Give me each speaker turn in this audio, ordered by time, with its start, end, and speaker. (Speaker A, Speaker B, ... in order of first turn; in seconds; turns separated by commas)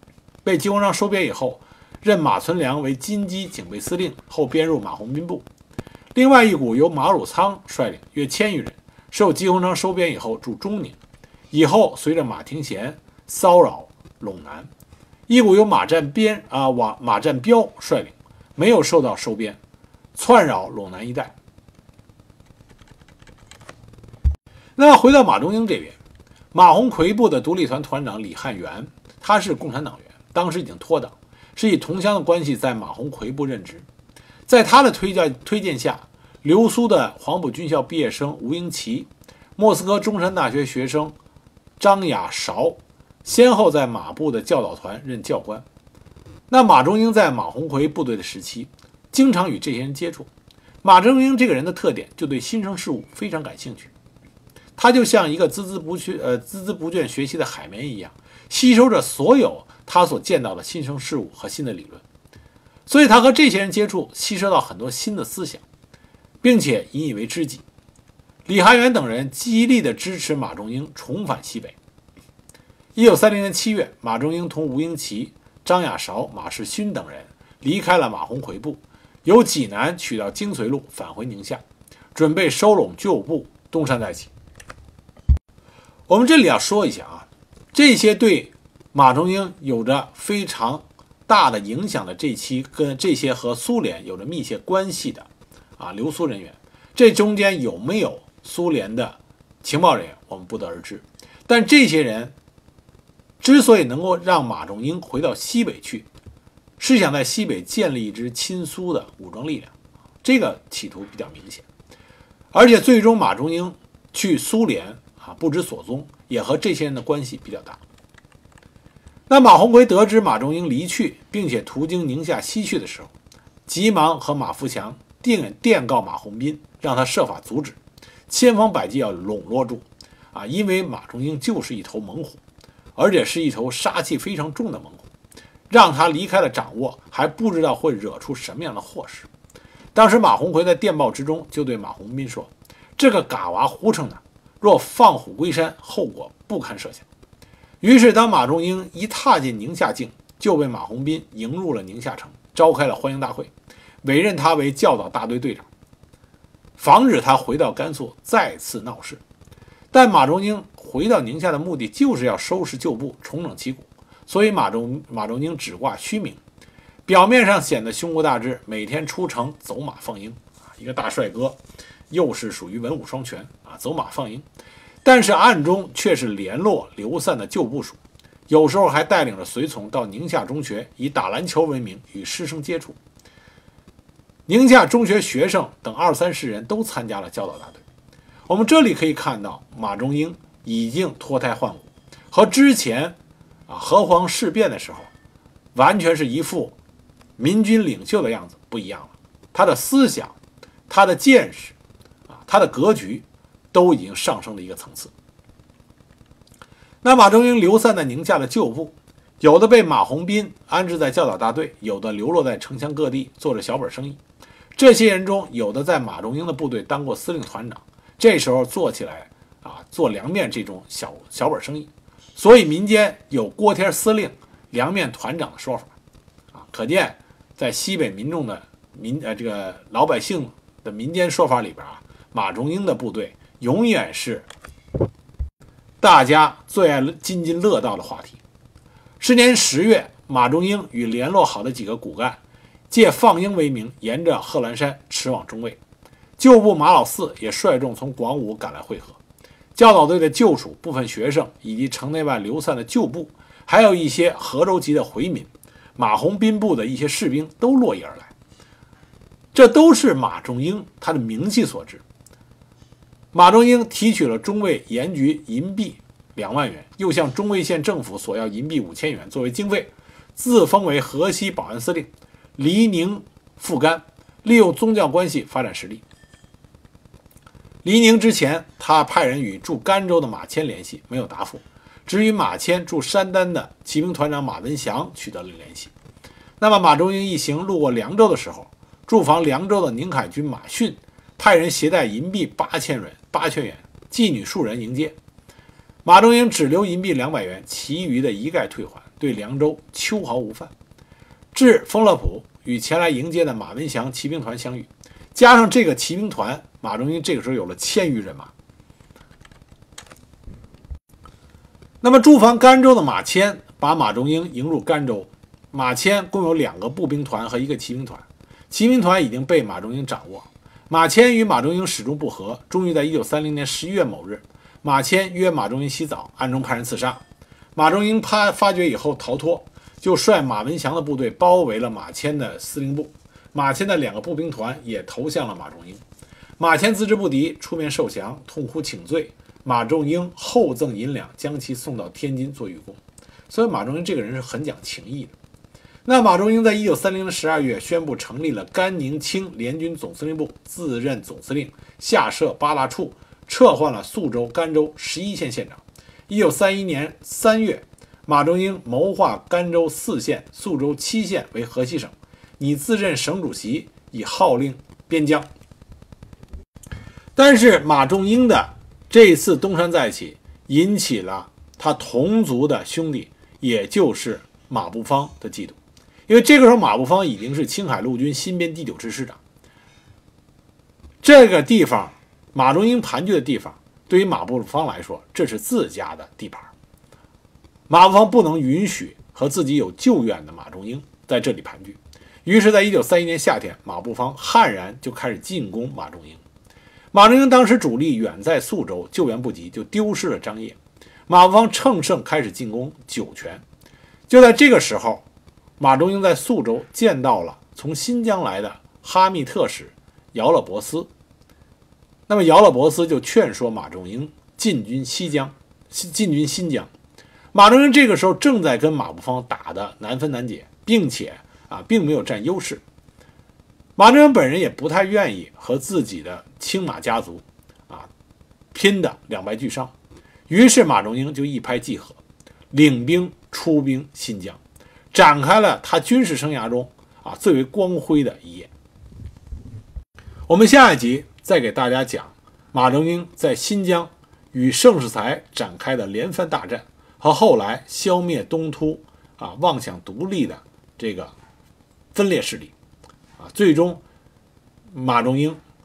Speaker A: 0.5-5.4, Speaker A: 6.2-11.0, Speaker A: 11.5-14.7, Speaker A: 15.3-19.6, Speaker A: 20.1-21.4, Speaker A: 24.8-26.0, Speaker A: 26.5-33.9, Speaker A: 34.5-41.1, Speaker A: 41.8-45.6, Speaker A: 46.5-50.3, Speaker A: 50.8-53.9, Speaker A: 54.8-62.0, Speaker A: 62.9-65.6, Speaker A: 66.4-67.6, Speaker A: 68.5-71.8, Speaker A: 73.0-81.6, Speaker A: 82.2-84.3, Speaker A: 86.1-102.3, Speaker A: 103.4-106.1, Speaker A: 106.8-111.7, Speaker A: 112.5-117.8, Speaker A: 119.3-123.1, Speaker A: 123.7-127.8, Speaker A: 128.3-132.4, Speaker A: 133.0-135.1, Speaker A: 135.7-139.3, Speaker A: 139.9-147.1, Speaker A: 147.8-153.5, Speaker A: 154.0-155.7, Speaker A: 156.8-159.2, Speaker A: 159.9-166.4, Speaker A: 167.1-171.6, Speaker A: 172.1-174.4, Speaker A: 175.0-183.0, Speaker A: 184.5-187.8, Speaker A: 188.5-193.2, Speaker A: 193.7-195.1, Speaker A: 195.8-196.8, Speaker A: 197.4-200.4, Speaker A: 200.9-201.8, Speaker A: 202.3-205.1, Speaker A: 207.0-214.2, Speaker A: 214.8-225.9, Speaker A: 226.5-234.5, Speaker A: 236.0-238.4, Speaker A: 239.2-242.4, Speaker A: 242.9-245.8, Speaker A: 246.4-249.2, Speaker A: 249.8-258.3, Speaker A: 259.5-262.0, Speaker A: 263.3-276.0, Speaker A: 277.8-285.9, Speaker A: 286.6-295.1, Speaker A: 296.1-300.7, Speaker A: 301.5-308.5, Speaker A: 312.0-327.2, Speaker A: 327.8-336.0, Speaker A: 336.6-345.3, Speaker A: 346.1-365.5, Speaker A: 367.4-375.8, Speaker A: 376.3-379.4, Speaker A: 381.2-386.7, Speaker A: 387.9-396.4, Speaker A: 397.1-400.8, Speaker A: 401.3-403.6, Speaker A: 404.3-405.2, Speaker A: 405.8-411.1, Speaker A: 412.3-416.9, Speaker A: 417.5-422.8, Speaker A: 424.0-428.1, Speaker A: 428.7-429.9, Speaker A: 430.5-432.2, Speaker A: 432.7-434.6, Speaker A: 435.1-438.7, Speaker A: 440.5-451.3, Speaker A: 452.1-452.7, Speaker A: 453.4-454.0, Speaker A: 454.9-455.6